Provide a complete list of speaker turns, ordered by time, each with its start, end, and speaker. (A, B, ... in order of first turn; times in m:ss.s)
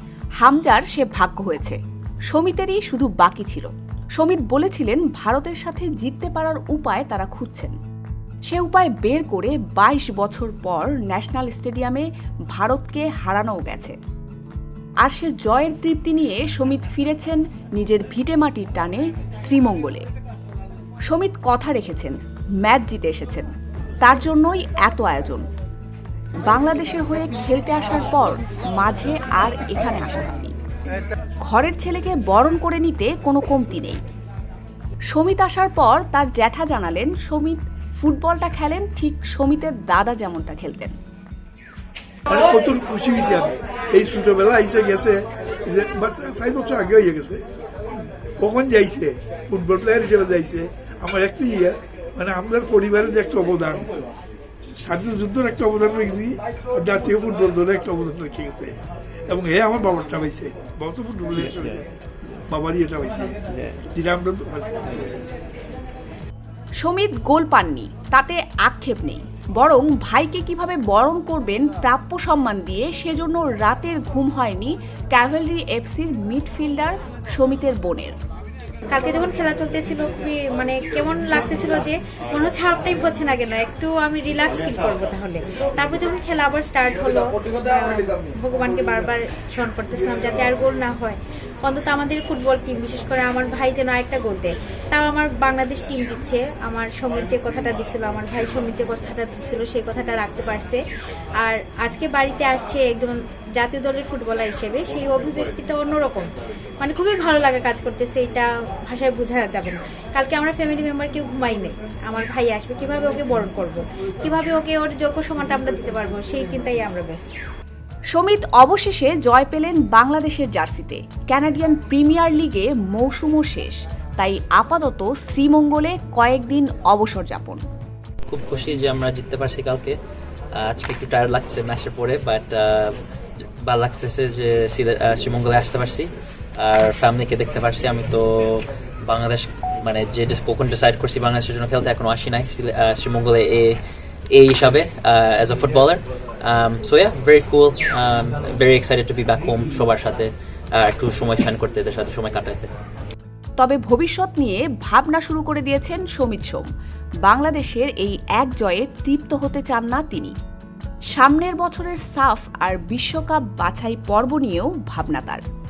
0:00.4-0:01.8 A
0:02.3-0:07.8 A
0:08.5-0:14.0 A
0:15.0-0:20.0 A
0:21.1-0:25.4 A
0:26.4-0:30.6 A
0:31.4-0:34.0 A
0:35.1-0:41.0 A
0:42.3-0:47.4 B
0:48.4-0:53.9 B
0:54.8-1:01.9 B
1:02.5-1:05.1 B
1:06.8-1:18.2 A
1:18.9-1:40.8 C
1:41.4-1:57.4 C
1:58.1-2:07.6 A
2:08.3-2:09.9 D
2:10.6-2:12.9 D
2:13.6-2:16.1 D
2:16.6-2:23.8 D
2:24.3-2:32.7 D
2:33.6-2:36.7 A
2:37.2-2:40.3 A
2:41.2-2:45.4 A